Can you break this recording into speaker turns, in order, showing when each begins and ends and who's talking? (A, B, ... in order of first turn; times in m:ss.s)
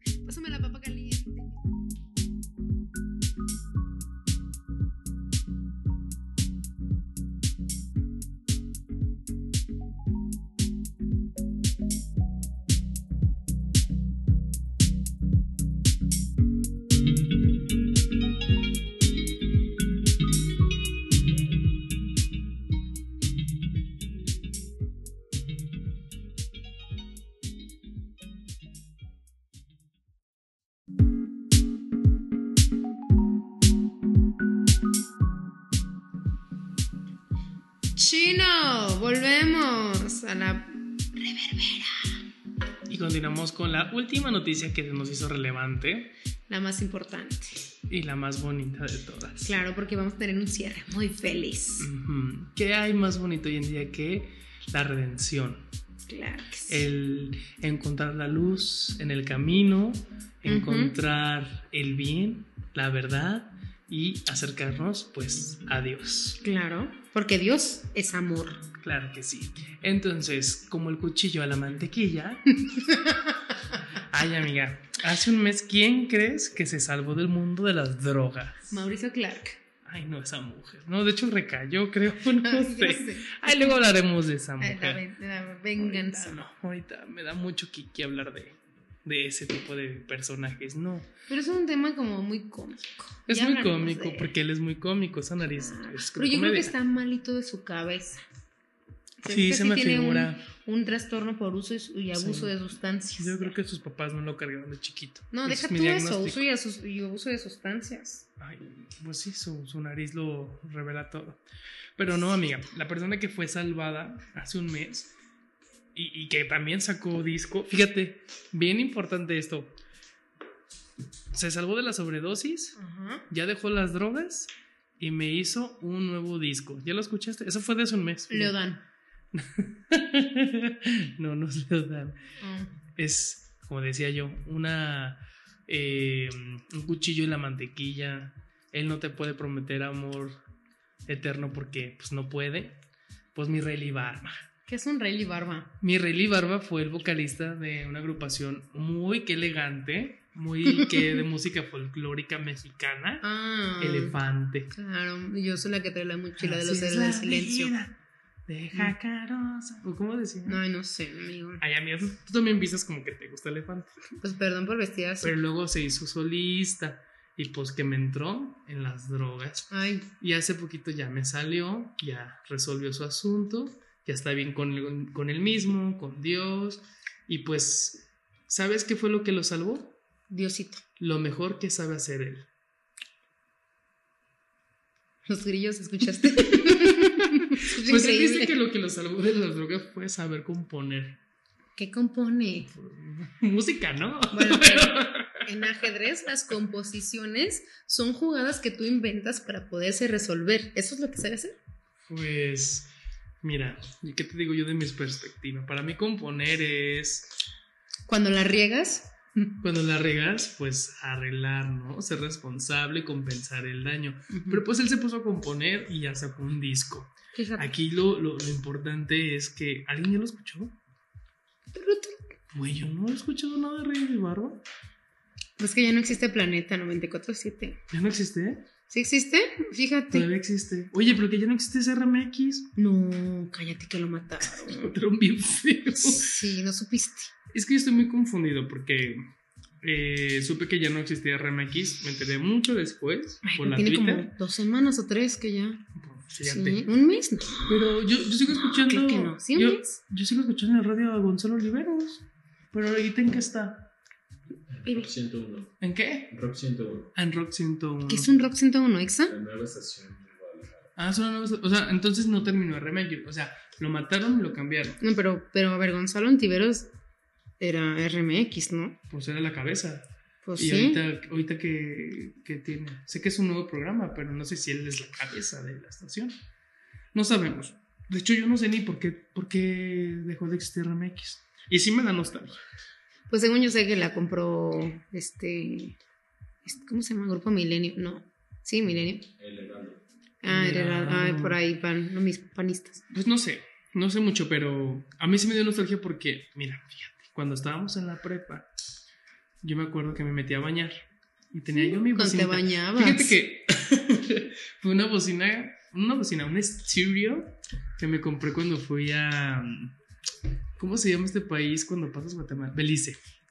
0:00.2-0:01.6 A
0:37.9-0:42.1 A
0:42.9-0:46.1 B
0:46.5-0:47.6 A
0:47.9-0:49.6 B
0:49.4-0:51.9 A
0:51.8-0:55.7 B
0:56.1-0:56.8 A
0:56.7-1:06.4 B
1:00.5-1:01.0 A
1:06.4-1:08.7 A
1:08.8-1:12.4 B
1:12.6-1:13.8 A
1:14.0-1:18.7 B
1:18.7-1:19.6 A
1:19.8-1:25.0 B
1:22.4-1:23.8 A
1:24.6-1:26.4 A
1:25.8-1:31.1 B
1:31.3-1:34.3 A
1:33.3-1:36.7 B
1:35.6-1:38.2 A
1:39.2-1:43.5 A
1:39.2-1:40.4 B
1:42.2-1:42.6 B
1:43.2-1:46.4 B
1:45.3-1:48.3 A
1:48.4-1:51.4 B
1:52.0-1:55.1 B
1:55.9-1:59.8 B
2:01.3-2:02.8 B
2:02.8-2:03.3 A
2:03.3-2:08.5 B
2:08.3-2:08.8 A
2:09.3-2:12.2 B
2:12.4-2:12.7 A
2:13.0-2:20.4 B
2:21.0-2:22.8 B
2:23.3-2:24.4 B
2:24.6-2:25.7 A
2:25.8-2:33.2 B
2:30.6-2:31.1 A
2:33.2-2:34.2 A
2:33.8-2:34.7 B
2:34.7-2:37.7 A
2:36.4-2:40.6 B
2:40.4-2:41.6 A
2:41.6-2:43.9 B
2:44.2-2:45.3 A
2:45.2-2:49.7 B
2:49.7-2:50.1 A
2:50.2-3:00.0 B
3:00.3-3:00.8 A
3:01.0-3:02.5 B
3:05.2-3:08.6 A
3:06.5-3:11.2 B
3:11.8-3:12.7 A
3:12.7-3:15.4 B
3:14.3-3:21.6 A
3:22.0-3:27.3 B
3:28.1-3:29.6 A
3:29.6-3:40.8 B
3:34.3-3:34.6 A
3:37.3-3:37.7 A
3:41.7-3:42.3 A
3:42.5-3:44.6 B
3:45.6-3:47.8 A
3:47.9-3:48.7 B
3:48.9-3:50.3 A
3:50.1-3:52.7 B
3:52.7-3:55.0 A
3:54.4-3:56.4 B
3:55.9-3:57.3 A
3:57.5-3:59.2 B
3:59.8-4:04.3 B
4:03.4-4:05.8 A
4:05.9-4:06.8 B
4:06.4-4:10.0 A
4:07.6-4:13.9 B
4:14.8-4:15.8 C
4:15.8-4:16.4 B
4:16.3-4:17.1 C
4:17.1-4:18.3 B
4:18.1-4:19.3 A
4:19.3-4:20.9 C
4:21.0-4:25.0 B
4:25.0-4:26.9 A
4:27.6-4:29.0 A
4:29.1-4:30.0 B
4:30.4-4:31.0 A
4:30.6-4:36.4 B
4:37.1-4:42.6 B
4:43.3-4:46.0 A
4:46.6-4:49.3 A
4:49.4-4:50.0 C
4:50.4-4:53.0 A
4:50.5-4:51.6 B
4:53.1-4:58.7 B
4:59.6-5:00.9 B
5:01.5-5:09.9 B
5:01.7-5:03.4 A
5:10.8-5:13.2 B